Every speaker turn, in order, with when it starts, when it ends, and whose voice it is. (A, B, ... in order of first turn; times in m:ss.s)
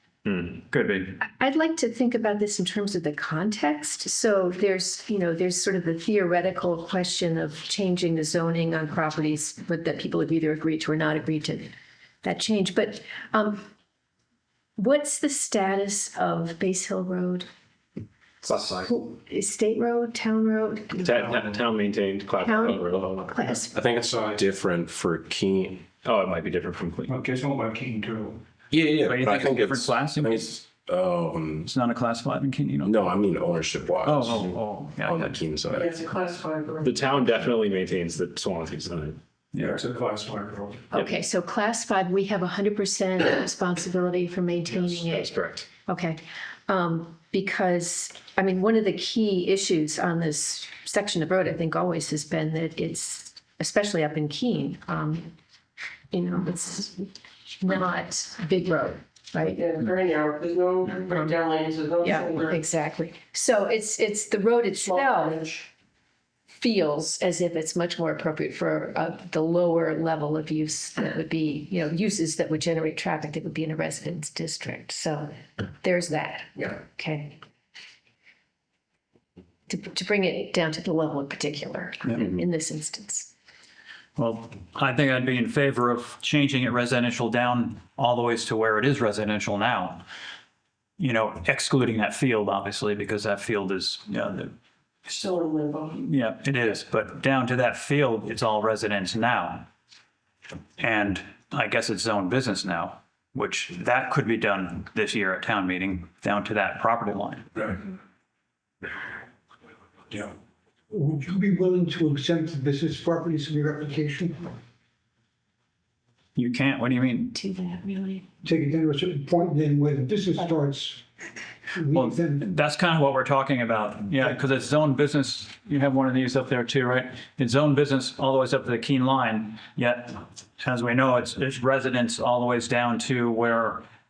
0:00.2-0:00.6 A
0:00.7-0:01.2 B
0:01.2-0:11.7 C
0:12.2-0:13.6 C
0:14.8-0:17.4 C
0:18.4-0:18.9 A
0:18.7-0:21.3 C
0:21.0-0:23.3 A
0:22.4-0:23.8 C
0:23.6-0:25.8 D
0:24.1-0:24.4 E
0:26.0-0:27.1 A
0:27.1-0:28.4 E
0:28.7-0:31.7 D
0:29.0-0:30.5 B
0:31.6-0:33.1 B
0:32.8-0:36.0 D
0:34.0-0:35.4 B
0:35.7-0:37.2 F
0:36.8-0:39.2 A
0:39.5-0:39.8 B
0:39.6-0:40.9 E
0:40.9-0:45.3 C
0:45.0-0:45.7 A
0:45.8-0:55.3 C
0:56.1-0:57.1 C
0:57.6-0:59.6 C
0:59.4-1:02.6 F
1:02.0-1:05.4 C
1:04.7-1:05.7 F
1:06.6-1:17.4 C
1:19.7-1:23.3 C
1:24.2-1:30.0 B
1:31.0-1:34.5 B
1:35.1-1:36.0 F
1:36.0-1:39.7 B
1:40.8-1:47.5 B
1:50.9-1:54.6 G
1:56.3-1:57.4 B
1:57.3-1:58.3 C
1:58.4-2:01.0 G
2:01.7-2:02.4 G
2:01.9-2:13.8 B